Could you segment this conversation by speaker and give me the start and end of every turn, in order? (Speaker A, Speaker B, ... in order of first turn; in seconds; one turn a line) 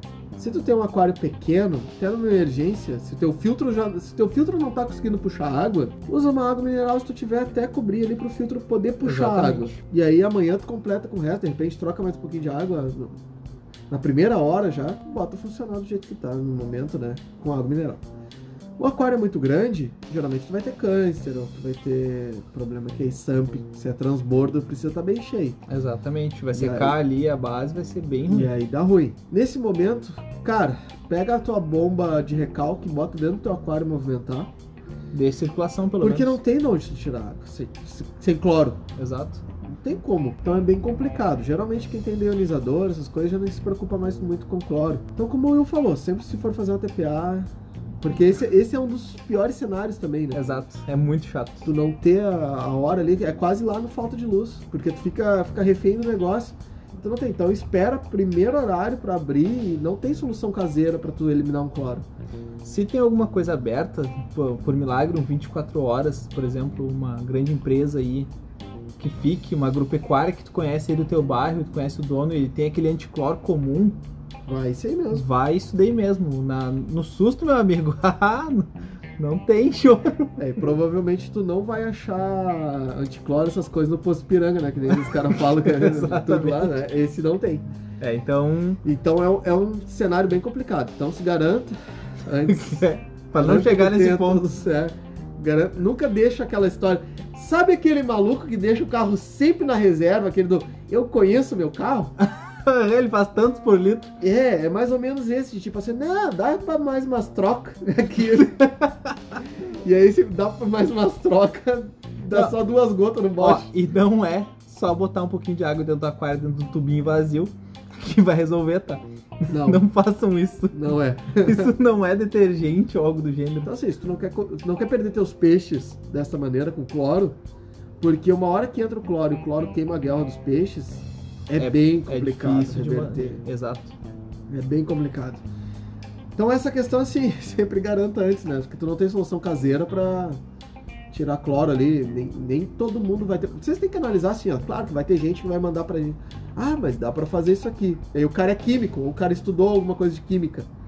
Speaker A: 0.4-13.2
Speaker B: 9.0-9.8
Speaker A: 13.9-18.0
Speaker A: 18.8-25.6
Speaker B: 25.7-28.5
Speaker A: 26.5-27.0
Speaker A: 28.3-34.5
Speaker B: 35.1-36.4
Speaker A: 36.0-38.8
Speaker B: 39.0-39.4
Speaker A: 39.7-50.4
Speaker B: 50.3-51.7
Speaker A: 51.6-62.0
Speaker B: 62.6-68.3
Speaker B: 69.0-74.0
Speaker A: 74.5-75.2
Speaker B: 75.1-80.4
Speaker A: 80.4-87.7
Speaker B: 84.9-86.8
Speaker B: 88.0-88.8
Speaker A: 88.8-102.1
Speaker B: 92.5-94.5
Speaker B: 102.2-104.1
Speaker A: 104.2-108.6
Speaker B: 108.5-109.2
Speaker A: 109.8-113.7
Speaker B: 113.4-123.7
Speaker A: 119.5-119.8
Speaker A: 120.7-121.7
Speaker A: 123.6-127.4
Speaker A: 128.0-133.4
Speaker B: 131.6-134.0
Speaker A: 134.5-135.4
Speaker A: 136.4-140.4
Speaker A: 141.1-150.7